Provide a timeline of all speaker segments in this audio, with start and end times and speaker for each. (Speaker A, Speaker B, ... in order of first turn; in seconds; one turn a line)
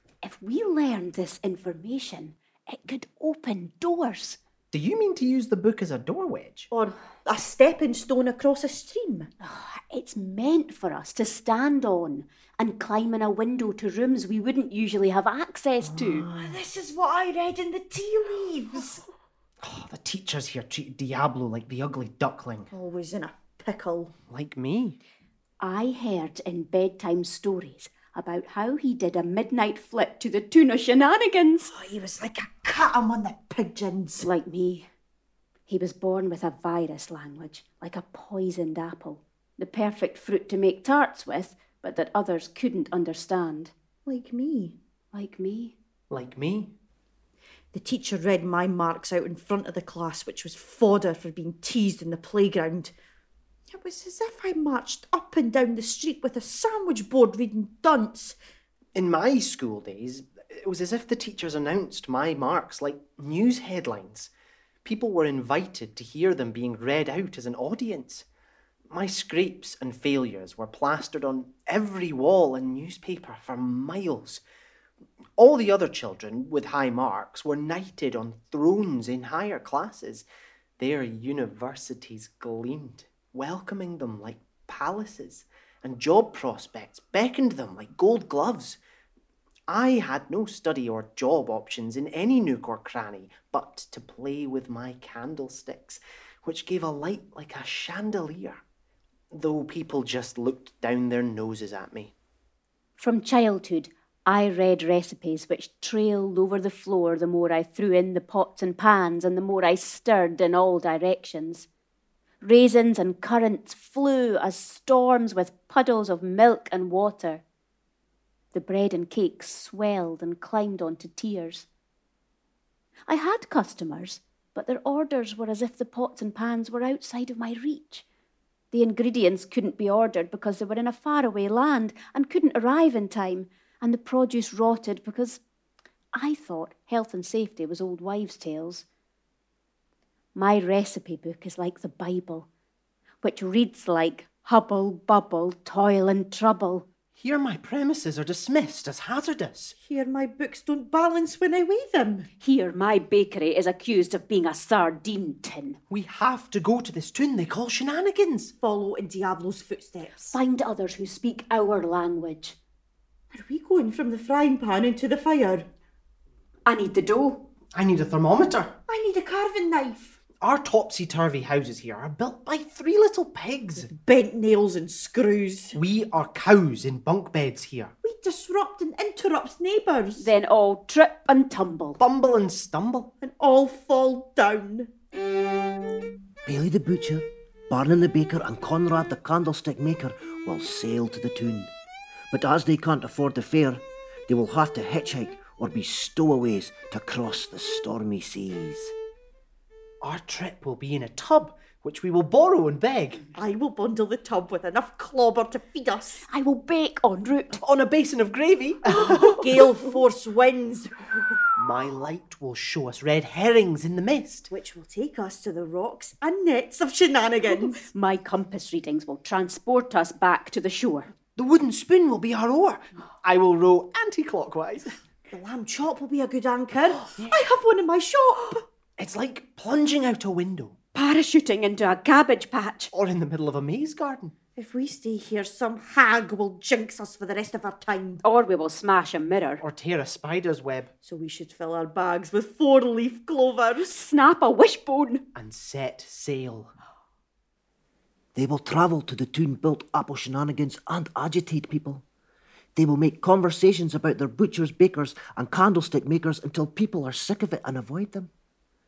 Speaker A: 0.2-4.4
Speaker B: 4.7-6.7
Speaker C: 6.7-9.3
Speaker A: 9.4-16.3
Speaker B: 15.9-16.6
Speaker C: 16.4-19.0
Speaker B: 19.6-22.7
Speaker C: 22.7-24.1
Speaker B: 24.3-25.0
Speaker A: 25.6-31.7
Speaker C: 31.7-34.3
Speaker A: 34.2-34.9
Speaker A: 35.7-43.7
Speaker C: 44.1-44.8
Speaker A: 45.1-45.8
Speaker B: 46.1-46.7
Speaker C: 47.7-52.9
Speaker C: 53.7-58.4
Speaker B: 59.0-64.3
Speaker B: 64.8-68.2
Speaker B: 68.9-74.4
Speaker B: 75.4-80.3
Speaker B: 80.8-88.8
Speaker B: 89.7-98.6
Speaker B: 99.3-102.1
Speaker A: 103.0-111.7
Speaker A: 112.4-117.4
Speaker A: 118.5-121.7
Speaker A: 123.1-128.1
Speaker A: 128.7-135.4
Speaker A: 136.1-138.9
Speaker A: 140.3-142.5
Speaker A: 143.2-146.9
Speaker B: 147.2-149.8
Speaker C: 149.8-152.3
Speaker A: 152.4-155.8
Speaker B: 155.9-158.5
Speaker C: 158.6-160.4
Speaker A: 160.3-162.6
Speaker C: 163.3-165.7
Speaker A: 166.7-167.4
Speaker B: 167.7-168.8
Speaker C: 168.9-170.2
Speaker B: 170.4-173.9
Speaker C: 173.8-175.8
Speaker B: 175.8-177.9
Speaker C: 178.0-180.3
Speaker A: 180.2-182.0
Speaker B: 182.0-183.1
Speaker C: 183.2-184.9
Speaker D: 186.5-191.7
Speaker D: 192.3-198.9
Speaker B: 200.0-203.2
Speaker C: 203.3-206.3
Speaker A: 206.3-207.6
Speaker B: 207.5-209.6
Speaker C: 209.1-211.4
Speaker B: 211.6-214.5
Speaker C: 214.5-217.8
Speaker A: 217.8-221.1
Speaker B: 221.4-225.0
Speaker C: 225.3-228.6
Speaker B: 229.0-230.8
Speaker A: 230.9-232.9
Speaker B: 232.9-234.3
Speaker C: 234.6-238.2
Speaker A: 238.2-239.6
Speaker B: 239.6-240.9
Speaker C: 241.0-244.0
Speaker A: 243.9-245.2
Speaker B: 245.3-246.7
Speaker D: 248.3-252.0
Speaker D: 252.8-258.3